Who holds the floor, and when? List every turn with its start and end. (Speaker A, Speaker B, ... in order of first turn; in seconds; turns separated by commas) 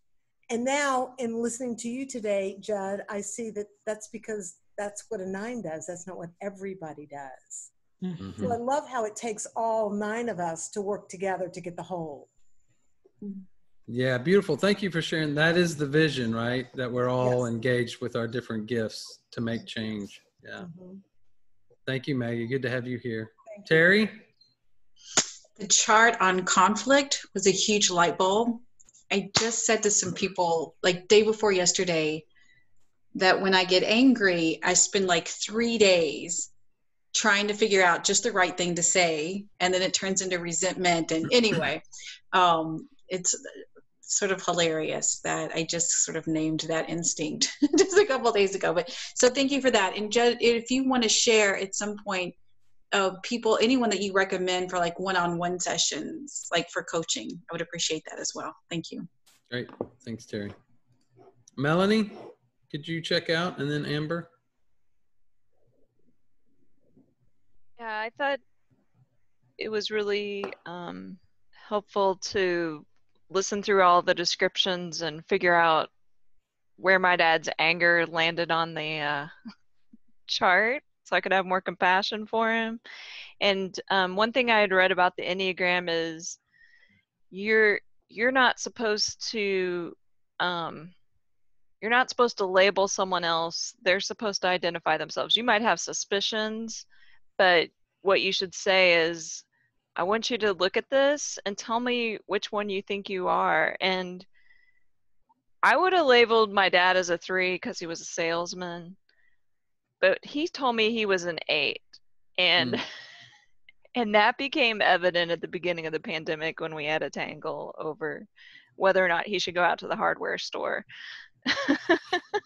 Speaker A: 0.5-7.7, Speaker B: 8.2-8.6, Speaker A: 8.4-12.3, Speaker B: 13.9-20.7, Speaker B: 21.9-24.2, Speaker C: 25.6-32.2, Speaker C: 33.1-36.5, Speaker C: 37.1-43.4, Speaker C: 44.0-52.4, Speaker C: 52.9-59.0, Speaker B: 59.5-60.5, Speaker B: 61.6-64.3, Speaker D: 67.8-68.4, Speaker D: 69.6-75.9, Speaker D: 76.8-79.3, Speaker D: 80.3-82.8, Speaker D: 83.4-86.4, Speaker D: 87.3-90.9, Speaker D: 91.8-96.8, Speaker D: 97.4-99.4, Speaker D: 100.0-104.2, Speaker D: 105.6-109.0, Speaker D: 110.0-112.8, Speaker B: 112.6-112.8, Speaker D: 113.9-120.8, Speaker D: 121.5-122.2